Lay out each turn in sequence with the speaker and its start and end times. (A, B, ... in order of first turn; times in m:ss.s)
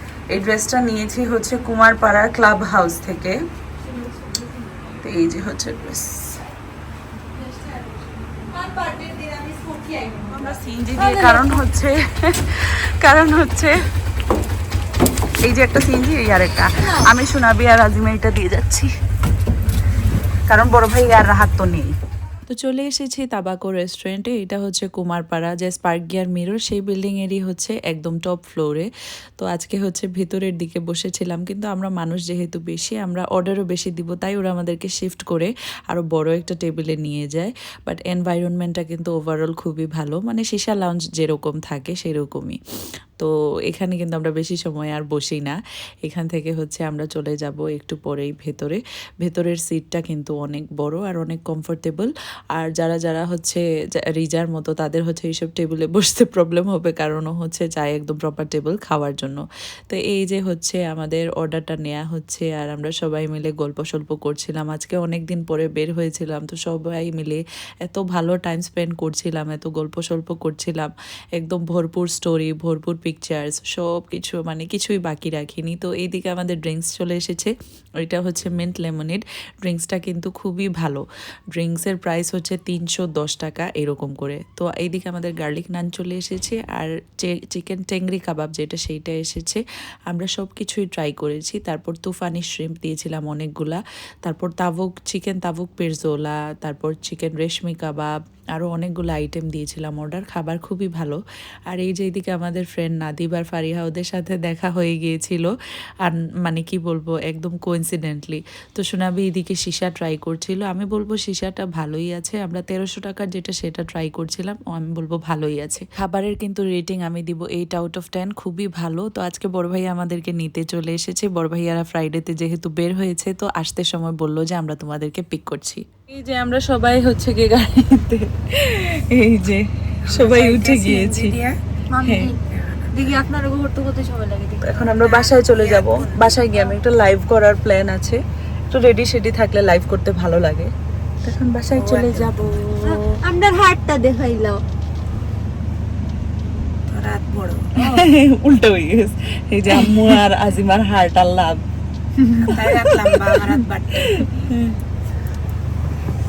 0:00.3-0:03.4 A
0:05.0-0:06.4 A
0:08.4-0:10.4 B
0:10.3-0:13.9 A
0:11.0-0:11.5 B
0:15.4-0:18.9 A
0:20.5-0:21.9 A
0:22.5-0:42.6 A
0:43.2-1:45.5 A
1:46.0-2:11.4 A
2:10.1-2:11.6 C
2:11.9-2:12.4 B
2:12.0-2:12.3 A
2:12.2-2:13.0 C
2:12.9-2:15.0 B
2:14.6-2:23.2 A
2:15.0-2:16.6 C
2:21.8-2:22.6 C
2:21.8-2:24.6 B
2:26.9-2:28.1 C
2:27.8-2:31.6 A
2:32.2-2:34.8 A
2:32.4-2:34.5 C